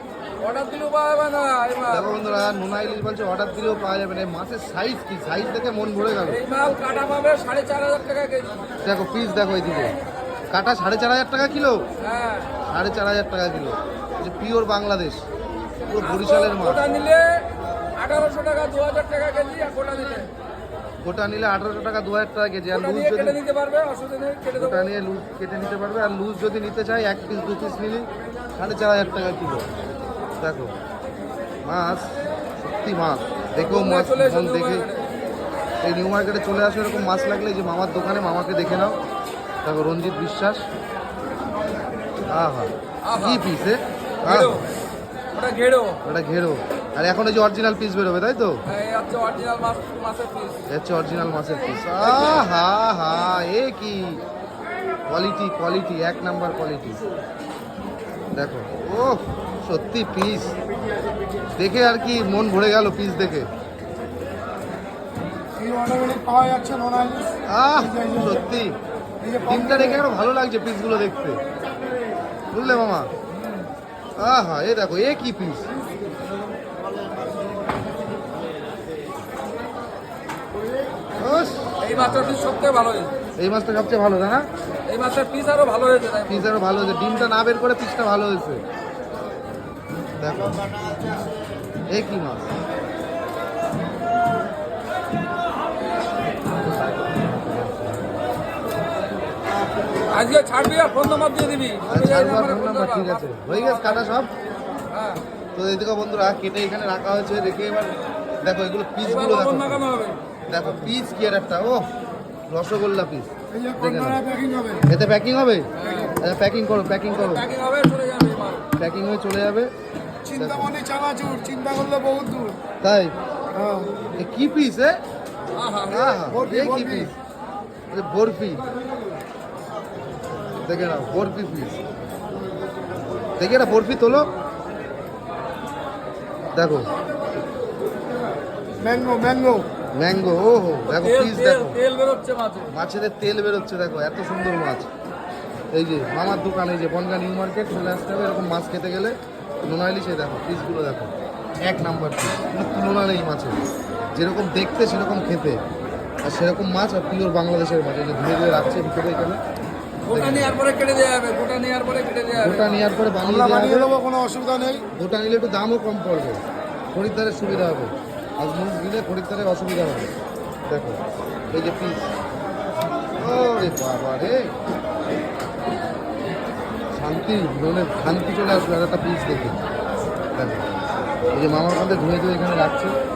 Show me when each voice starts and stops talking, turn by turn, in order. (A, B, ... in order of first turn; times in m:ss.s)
0:00.4-0:02.2 A
0:01.9-0:06.4 B
0:06.3-0:08.6 A
0:08.8-0:09.9 B
0:10.5-0:11.8 B
0:12.0-0:12.5 A
0:12.6-0:15.2 B
0:15.9-0:16.9 B
0:16.0-0:17.4 A
0:17.9-0:20.3 A
0:21.0-0:23.4 B
0:22.7-0:24.9 A
0:24.5-0:29.7 B
0:30.4-0:30.7 B
0:31.6-0:34.9 B
0:33.7-0:35.0 A
0:35.8-0:39.0 B
0:39.6-0:40.6 B
0:42.3-0:44.6 B
0:43.0-0:43.4 A
0:44.2-0:44.7 A
0:45.3-0:46.0 A
0:46.0-0:48.6 B
0:48.6-0:50.6 A
0:50.7-0:54.2 B
0:55.1-0:57.0 B
0:58.3-1:00.6 B
1:01.6-1:03.5 B
1:05.6-1:08.4 C
1:07.5-1:08.8 B
1:09.2-1:10.0 C
1:09.4-1:11.4 B
1:12.5-1:13.1 B
1:14.2-1:15.7 B
1:21.2-1:22.5 B
1:21.8-1:23.1 A
1:23.4-1:24.5 B
1:24.9-1:26.4 A
1:26.3-1:28.6 B
1:30.2-1:31.0 B
1:31.9-1:32.5 B
1:36.6-1:38.2 B
1:40.1-1:44.0 A
1:41.9-1:44.3 B
1:44.9-1:45.2 A
1:45.5-1:49.9 B
1:49.0-1:50.2 A
1:50.5-1:51.9 B
1:52.5-1:54.2 B
1:53.5-1:54.8 C
1:54.9-1:57.4 B
1:55.8-1:56.1 A
1:55.8-1:56.1 C
1:57.1-1:58.7 A
1:58.8-1:59.7 B
2:00.2-2:02.6 C
2:00.3-2:00.7 B
2:02.8-2:03.2 B
2:03.5-2:04.0 C
2:04.2-2:05.0 B
2:05.5-2:06.1 A
2:05.9-2:07.1 B
2:06.3-2:07.1 C
2:07.9-2:08.6 B
2:10.6-2:11.8 B
2:13.4-2:14.3 B
2:16.5-2:16.9 B
2:18.8-2:19.6 C
2:20.0-2:21.8 B
2:20.9-2:22.7 A
2:22.7-2:24.9 B
2:25.7-2:33.6 B
2:34.1-2:35.6 B
2:36.2-2:39.4 B
2:40.1-2:42.9 A
2:40.1-2:40.6 B
2:42.3-2:43.9 B
2:43.2-2:44.8 C
2:44.9-2:46.4 B
2:46.9-2:50.1 B
2:50.7-2:52.1 B
2:53.2-2:54.5 B
2:56.9-2:59.6 B
3:00.3-3:00.7 B
3:01.3-3:03.0 B